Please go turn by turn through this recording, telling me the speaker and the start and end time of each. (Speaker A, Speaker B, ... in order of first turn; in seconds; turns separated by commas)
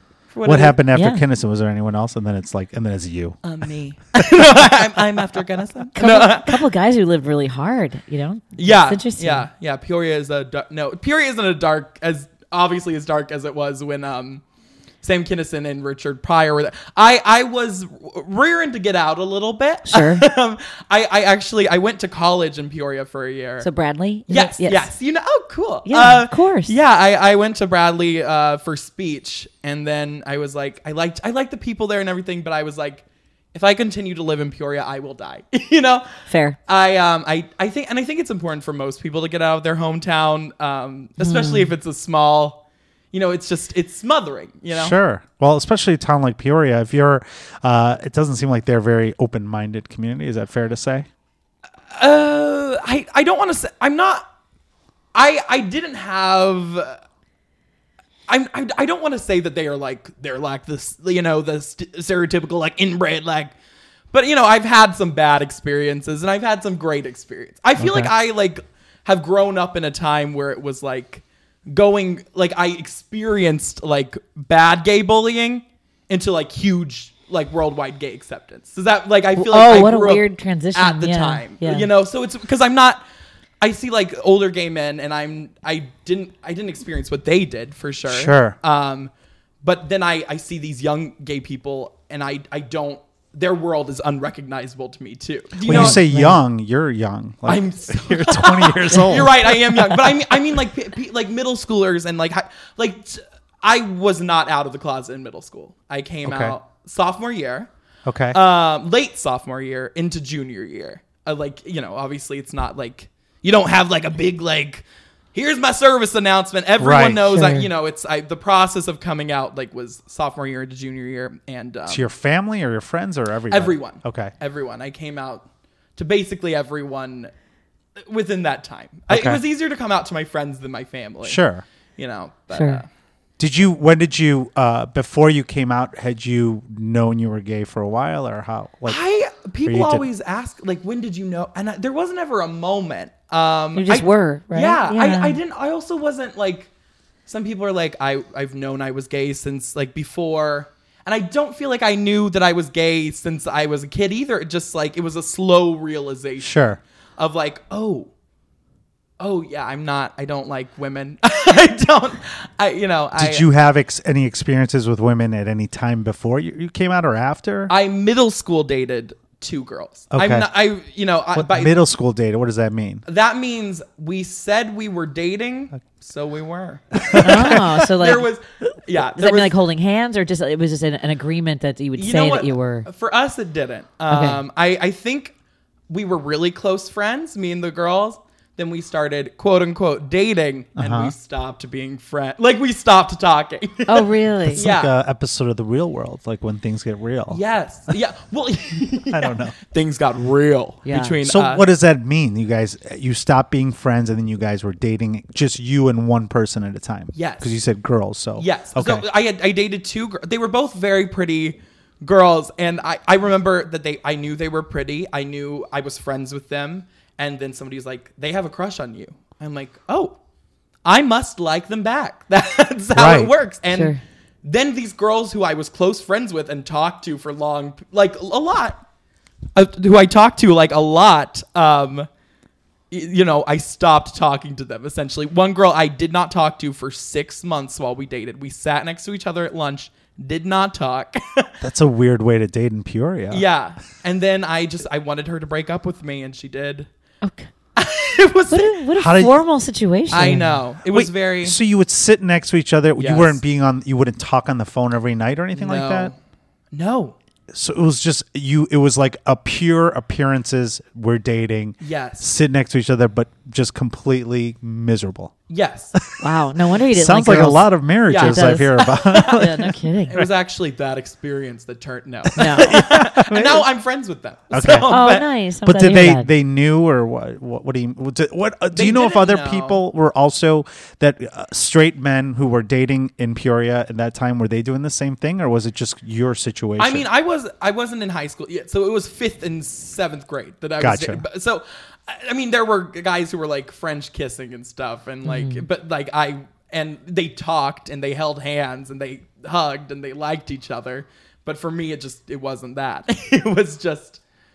Speaker A: 0.3-0.8, Speaker B: 0.4-3.4, Speaker C: 0.9-1.2, Speaker A: 3.4-6.6, Speaker C: 6.0-9.5, Speaker A: 8.6-14.4, Speaker A: 15.0-23.7, Speaker C: 19.9-20.2, Speaker C: 23.6-24.9, Speaker A: 24.3-42.6, Speaker C: 25.9-26.7, Speaker C: 36.3-36.6, Speaker C: 41.2-41.7, Speaker A: 43.1-45.0, Speaker B: 44.7-51.1, Speaker A: 51.9-54.3, Speaker A: 55.1-57.0, Speaker A: 58.3-63.5, Speaker A: 64.1-83.0, Speaker B: 67.8-68.1, Speaker C: 79.3-81.9, Speaker A: 83.6-89.1, Speaker B: 88.1-88.6, Speaker A: 89.6-96.0, Speaker C: 95.6-96.4, Speaker B: 95.7-100.3, Speaker A: 97.5-107.7, Speaker B: 106.2-106.6, Speaker B: 108.0-108.4, Speaker A: 108.3-122.0, Speaker B: 116.8-117.3, Speaker C: 117.2-117.7, Speaker B: 121.9-124.3, Speaker A: 123.5-125.4, Speaker A: 126.0-127.3, Speaker A: 128.0-131.4, Speaker B: 129.1-129.4, Speaker B: 131.2-131.6, Speaker A: 132.0-132.9, Speaker C: 132.5-132.8, Speaker B: 133.4-139.0, Speaker A: 138.8-146.7, Speaker B: 139.6-140.1, Speaker C: 143.7-145.4, Speaker A: 147.3-156.6, Speaker B: 156.4-156.8, Speaker A: 157.2-158.1, Speaker A: 159.2-163.4, Speaker B: 163.2-167.7, Speaker A: 167.7-171.8, Speaker B: 170.1-170.5, Speaker B: 171.3-173.0, Speaker A: 173.1-179.5, Speaker B: 177.0-177.7, Speaker C: 177.2-178.3, Speaker C: 178.9-182.9, Speaker A: 181.9-185.3, Speaker C: 184.1-184.4, Speaker A: 185.9-194.9, Speaker B: 190.8-191.1, Speaker C: 193.9-194.7, Speaker B: 194.5-197.4, Speaker A: 197.3-201.6, Speaker B: 199.1-199.6, Speaker C: 200.8-201.2, Speaker B: 201.2-209.0, Speaker A: 207.1-207.6, Speaker A: 208.4-220.2, Speaker A: 220.8-228.8, Speaker B: 222.9-223.3, Speaker C: 223.7-224.0, Speaker A: 229.5-232.1, Speaker A: 232.9-241.5, Speaker B: 241.6-243.4, Speaker A: 243.3-246.9, Speaker C: 247.2-247.5, Speaker A: 247.8-248.8, Speaker C: 248.5-250.6, Speaker B: 248.9-249.3, Speaker A: 250.1-251.6, Speaker B: 250.8-256.1, Speaker A: 252.9-253.4, Speaker A: 255.5-256.2, Speaker A: 256.7-257.1, Speaker B: 257.5-265.3, Speaker A: 261.8-262.3, Speaker A: 265.5-266.1, Speaker B: 265.9-266.2, Speaker C: 266.2-270.2, Speaker B: 266.8-270.3, Speaker A: 268.1-275.3, Speaker C: 272.4-272.9, Speaker B: 272.4-273.6, Speaker B: 274.5-274.9, Speaker C: 274.8-276.3, Speaker B: 275.6-287.1, Speaker A: 278.7-279.8, Speaker A: 286.8-304.2, Speaker B: 290.8-291.2, Speaker C: 295.2-295.6